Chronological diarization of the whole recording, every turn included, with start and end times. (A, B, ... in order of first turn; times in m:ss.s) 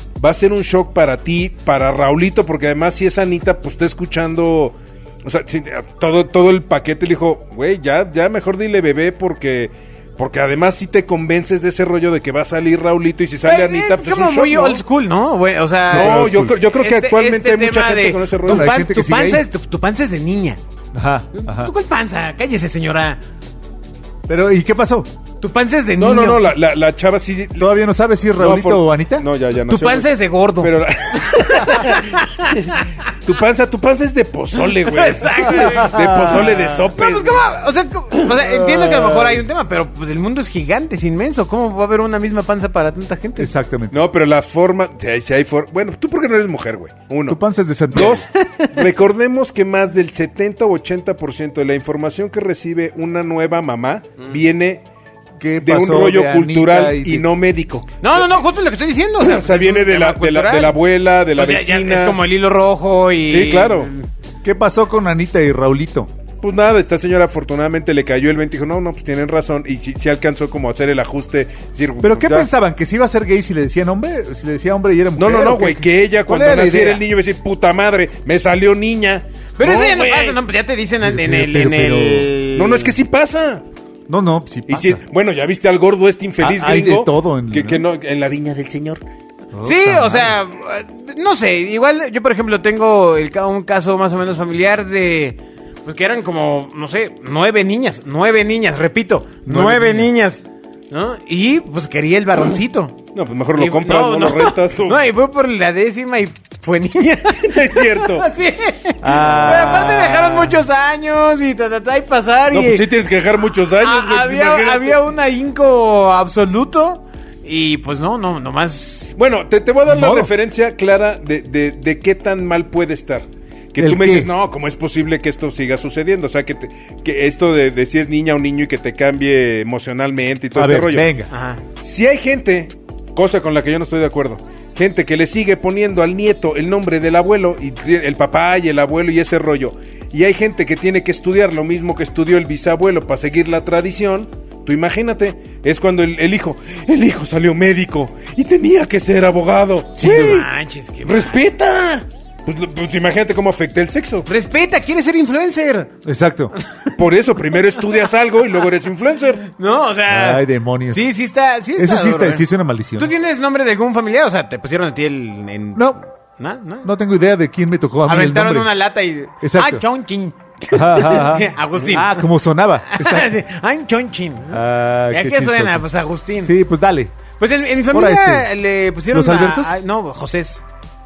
0:00.2-0:14.8 A
0:13.4-0:20.6 B
0:15.8-0:16.6 C
0:15.9-0:18.7 A
0:18.4-0:19.4 C
0:20.9-0:21.7 C
0:21.3-0:23.2 B
0:24.3-0:25.1 C
0:25.4-0:26.5 B
0:26.0-0:27.8 A
0:27.6-0:29.3 C
0:28.4-0:37.4 A
0:29.7-0:33.0 B
0:34.6-0:43.5 B
0:35.7-0:36.8 C
0:38.3-0:39.4 C
0:43.4-0:44.0 C
0:43.9-0:47.4 A
0:47.3-0:48.2 C
0:47.9-0:54.8 A
0:55.4-0:57.3 C
0:55.6-0:58.2 A
0:58.0-1:00.8 B
0:59.2-1:02.2 A
1:01.3-1:04.1 B
1:03.3-1:03.9 A
1:04.4-1:06.1 C
1:06.4-1:12.5 A
1:12.0-1:17.0 C
1:15.2-1:20.4 A
1:19.6-1:22.9 B
1:21.0-1:22.3 C
1:22.5-1:23.6 A
1:24.1-1:25.0 C
1:24.7-1:29.0 A
1:26.4-1:27.8 C
1:29.5-1:30.3 C
1:29.6-1:43.0 B
1:39.4-1:40.1 C
1:43.1-1:45.0 A
1:43.5-1:52.9 B
1:47.5-1:48.3 A
1:49.0-1:50.6 C
1:49.3-1:49.5 A
1:52.5-1:55.1 A
1:53.8-1:59.2 B
1:59.2-2:11.1 A
1:59.8-2:00.3 C
2:03.8-2:04.3 C
2:10.5-2:11.3 C
2:11.3-2:11.6 B
2:11.8-2:30.4 A
2:30.0-2:30.4 C
2:30.0-2:31.4 B
2:31.0-2:34.3 A
2:34.2-2:35.9 B
2:36.0-2:36.5 C
2:36.6-2:36.9 B
2:37.0-2:39.4 A
2:39.5-2:46.9 B
2:40.1-2:41.1 C
2:41.8-2:43.1 C
2:46.8-2:48.7 C
2:48.0-2:52.3 B
2:49.4-2:49.8 C
2:50.7-2:53.3 C
2:52.9-2:56.5 B
2:54.5-2:55.8 C
2:56.4-2:57.1 C
2:57.4-3:00.6 B
2:57.9-2:58.5 C
2:59.1-2:59.7 C